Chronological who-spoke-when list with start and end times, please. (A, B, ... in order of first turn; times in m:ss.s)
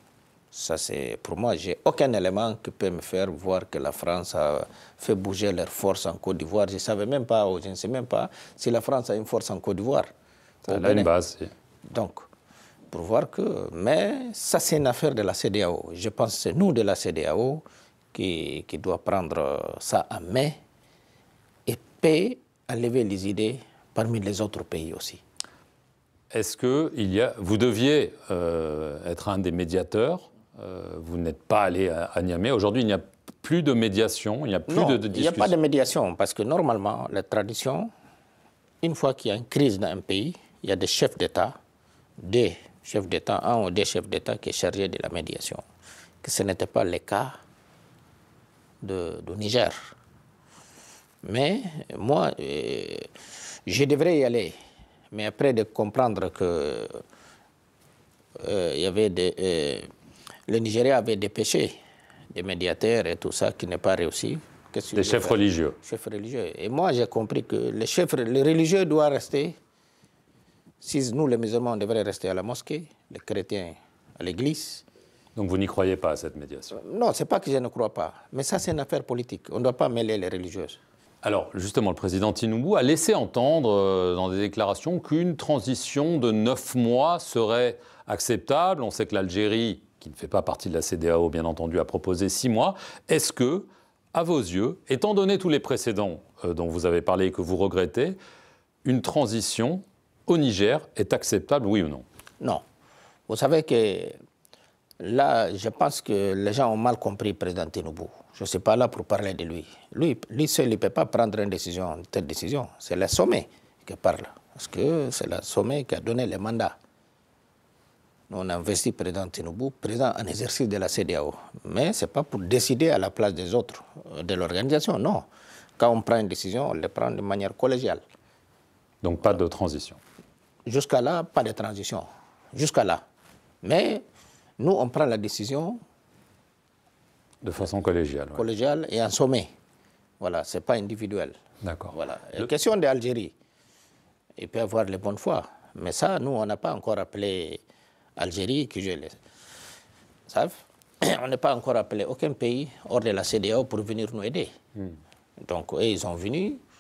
0:00.5-0:10.1 A
0:10.7-0:11.1 A
0:10.7-0:11.5 B
0:11.9-0:12.2 A
0:12.9-0:20.6 A
0:21.7-0:25.2 A
0:26.3-0:35.5 B
0:34.7-0:37.9 A
0:38.8-0:41.6 A
0:42.2-0:45.6 A
0:46.2-0:47.4 A
0:48.8-0:49.9 A
0:51.2-0:53.1 A
0:53.7-0:54.6 A
0:55.1-0:57.0 A
0:58.4-0:59.9 A
1:00.5-1:01.8 A
1:02.3-1:09.6 A
1:05.0-1:05.8 B
1:10.8-1:14.8 A
1:15.4-1:16.8 B
1:16.7-1:20.8 A
1:21.2-1:38.2 B
1:38.8-1:42.0 B
1:43.3-1:44.2 A
1:45.0-1:56.8 A
1:58.3-2:08.0 A
2:09.0-2:10.0 B
2:10.7-2:13.0 A
2:13.6-2:14.0 A
2:14.6-2:15.8 A
2:17.4-2:18.4 B
2:18.4-2:19.5 A
2:20.2-2:21.4 A
2:21.6-2:22.0 B
2:21.9-2:23.3 A
2:24.4-2:27.6 A
2:28.2-2:29.2 A
2:30.3-2:34.5 A
2:35.4-2:36.6 A